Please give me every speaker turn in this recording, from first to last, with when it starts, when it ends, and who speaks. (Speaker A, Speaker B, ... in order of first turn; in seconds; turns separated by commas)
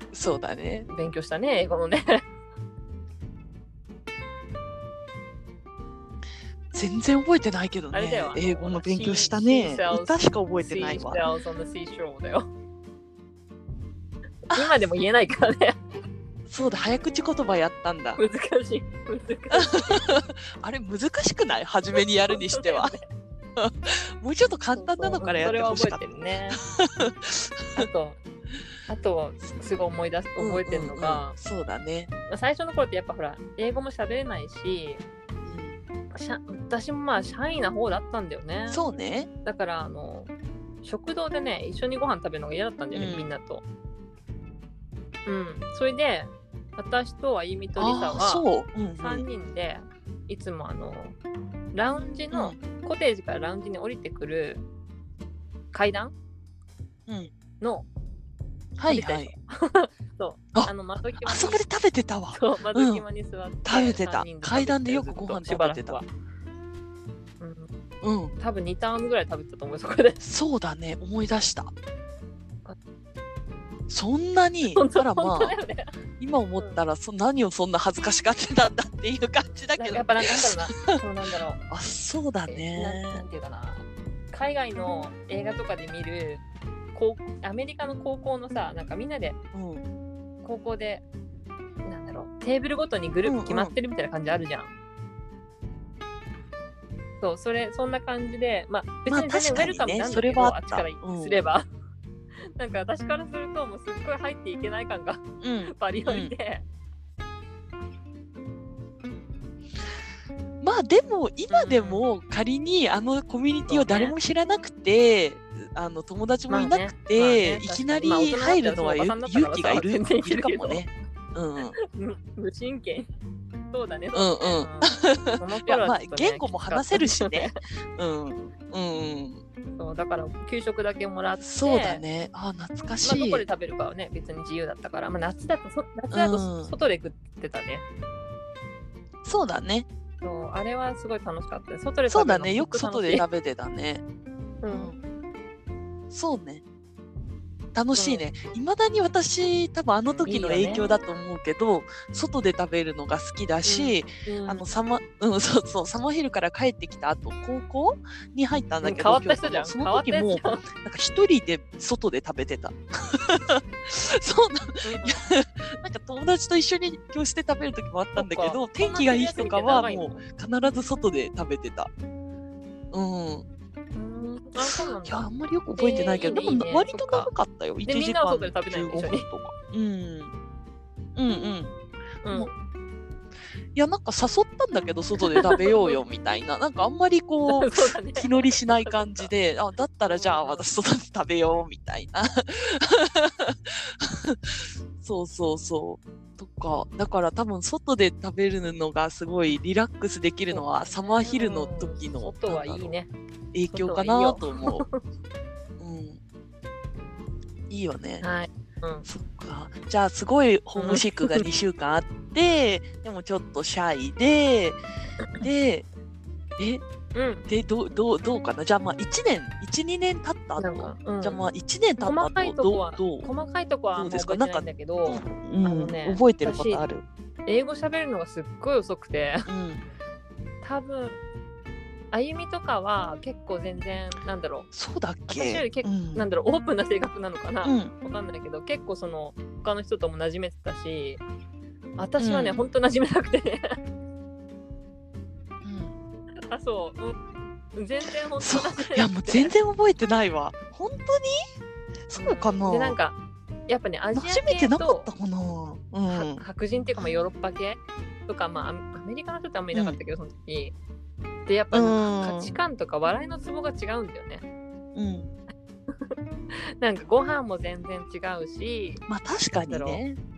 Speaker A: 0.1-0.9, Speaker B: 0.9-2.2, Speaker A: 6.7-11.3, Speaker B: 7.9-12.5, Speaker B: 14.5-15.8, Speaker A: 14.5-14.8, Speaker A: 16.5-18.2, Speaker B: 18.2-20.1, Speaker A: 19.5-23.0, Speaker B: 22.3-23.1, Speaker A: 23.6-27.9, Speaker B: 24.7-26.6, Speaker B: 27.8-28.2, Speaker B: 28.9-31.4, Speaker A: 30.4-32.1, Speaker B: 32.3-35.0, Speaker A: 35.5-35.8, Speaker B: 36.1-38.8, Speaker A: 38.7-39.3, Speaker B: 39.5-40.3, Speaker B: 40.8-43.6, Speaker A: 42.9-43.3, Speaker B: 45.3-51.2, Speaker A: 47.8-49.3, Speaker B: 51.7-54.6, Speaker A: 52.3-52.6, Speaker B: 55.7-56.1, Speaker A: 57.1-57.3, Speaker B: 57.6-57.9, Speaker A: 58.8-59.3, Speaker B: 58.9-61.6, Speaker A: 60.5-63.0, Speaker B: 62.3-66.1, Speaker A: 63.6-66.0, Speaker B: 67.4-67.7, Speaker A: 68.0-68.3, Speaker B: 68.4-70.2, Speaker A: 70.2-71.7, Speaker A: 73.9-75.6, Speaker B: 74.7-76.0, Speaker A: 76.2-81.0, Speaker B: 79.4-81.6, Speaker A: 81.7-83.2, Speaker B: 82.5-89.4, Speaker A: 89.5-89.8, Speaker B: 90.4-91.0, Speaker B: 91.8-94.7, Speaker A: 93.2-93.7, Speaker B: 97.2-101.6, Speaker A: 99.1-101.4, Speaker B: 102.5-106.6, Speaker A: 105.4-106.3, Speaker A: 110.6-121.7, Speaker B: 111.5-112.0, Speaker B: 113.7-114.2, Speaker B: 116.5-120.8, Speaker B: 121.6-123.1, Speaker B: 123.7-127.5, Speaker A: 124.1-129.4, Speaker B: 129.8-132.0, Speaker A: 131.4-133.4, Speaker B: 133.0-137.8, Speaker A: 136.1-136.7, Speaker A: 139.2-139.9, Speaker B: 140.2-143.3, Speaker A: 142.1-144.0, Speaker B: 144.6-144.9, Speaker A: 144.7-145.0, Speaker A: 146.1-146.6, Speaker A: 147.7-171.9, Speaker B: 147.9-148.3, Speaker B: 150.2-150.9, Speaker B: 153.6-154.6, Speaker B: 158.8-160.6, Speaker B: 164.8-165.2, Speaker B: 168.2-170.2, Speaker A: 172.9-173.4, Speaker B: 173.9-177.3, Speaker A: 174.6-180.3, Speaker B: 177.8-179.3, Speaker A: 181.2-181.7, Speaker B: 182.2-182.5, Speaker A: 183.7-202.9, Speaker B: 185.2-186.0, Speaker B: 187.5-189.3, Speaker B: 190.0-190.7, Speaker B: 200.5-203.1, Speaker A: 203.5-204.8, Speaker B: 203.7-205.0, Speaker A: 205.8-206.2, Speaker A: 207.7-208.2, Speaker B: 208.2-209.1, Speaker A: 209.1-214.8, Speaker B: 210.8-211.4, Speaker B: 215.2-215.5, Speaker A: 215.4-215.9, Speaker A: 216.6-216.8, Speaker B: 217.1-217.4, Speaker A: 217.5-223.3, Speaker B: 220.6-226.8, Speaker A: 223.9-227.0, Speaker B: 227.4-229.5, Speaker A: 229.5-229.8, Speaker B: 230.6-231.2, Speaker B: 232.1-234.7, Speaker A: 234.7-236.2, Speaker B: 235.3-241.2, Speaker A: 237.6-237.9, Speaker B: 242.0-243.8, Speaker A: 242.2-242.6, Speaker A: 245.6-245.9, Speaker B: 246.3-247.2, Speaker B: 247.7-249.5, Speaker A: 248.4-251.4, Speaker A: 252.1-253.0, Speaker B: 252.2-253.2, Speaker B: 253.7-255.1, Speaker A: 254.1-256.4, Speaker B: 256.1-260.7, Speaker A: 259.7-260.0, Speaker B: 261.4-264.4, Speaker A: 261.7-262.5, Speaker A: 264.9-265.3, Speaker B: 265.9-269.0, Speaker A: 269.1-270.2, Speaker B: 269.7-270.0